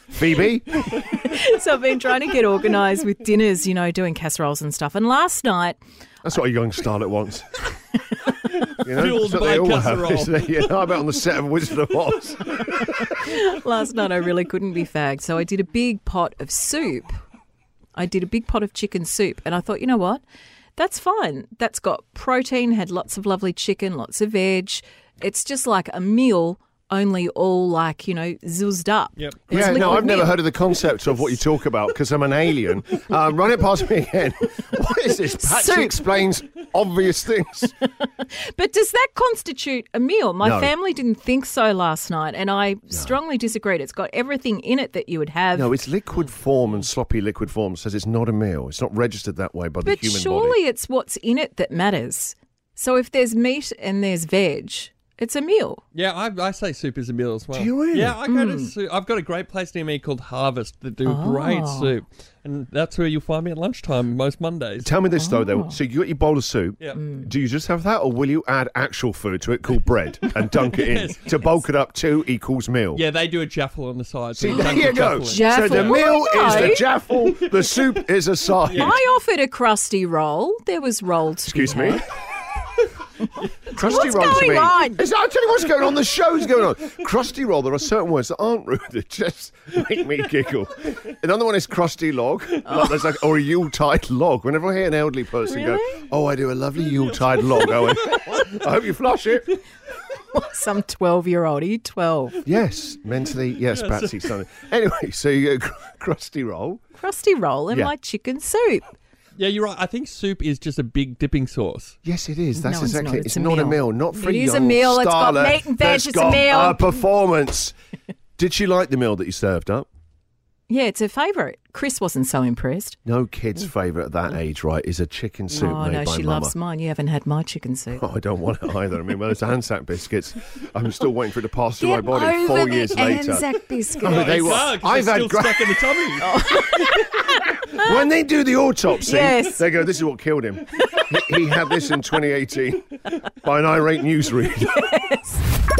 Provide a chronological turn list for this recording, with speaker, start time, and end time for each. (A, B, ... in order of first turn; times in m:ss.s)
0:00.1-0:00.8 A
0:01.0-0:05.8 B
0:06.2-0:07.4 A
0:08.8-0:13.1 A
0:08.9-0:10.4 C
0:12.8-0:17.1 B
0:18.0-0:20.2 B
0:20.8-0:30.5 B
0:29.2-0:29.8 C
0:29.5-0:37.7 A
0:35.3-0:36.1 B
0:38.0-0:45.8 B
0:40.4-0:40.7 A
0:45.5-0:50.6 A
0:49.8-0:55.8 B
0:55.9-1:04.9 C
0:57.5-0:58.2 A
0:58.2-0:58.7 B
1:01.0-1:01.9 B
1:04.8-1:13.0 A
1:05.2-1:05.8 B
1:06.9-1:07.3 B
1:10.7-1:11.6 C
1:12.9-1:16.8 C
1:14.4-1:19.0 A
1:14.5-1:16.8 B
1:18.7-1:19.0 C
1:18.7-1:22.0 B
1:21.5-1:22.0 A
1:23.7-1:25.0 B
1:23.7-1:39.6 A
1:32.6-1:32.9 B
1:35.5-1:36.0 B
1:40.2-1:42.4 B
1:42.4-1:46.8 A
1:43.7-1:44.2 C
1:46.9-1:49.0 B
1:49.4-1:51.9 C
1:52.0-1:57.7 A
1:52.6-1:56.8 B
1:58.4-1:59.9 A
2:00.7-2:03.0 B
2:03.0-2:06.5 A
2:05.5-2:08.0 B
2:07.9-2:15.7 A
2:11.8-2:14.6 B
2:14.0-2:16.3 C
2:16.2-2:17.9 B
2:17.7-2:22.9 A
2:19.0-2:19.6 B
2:23.4-2:24.8 A
2:24.6-2:25.4 B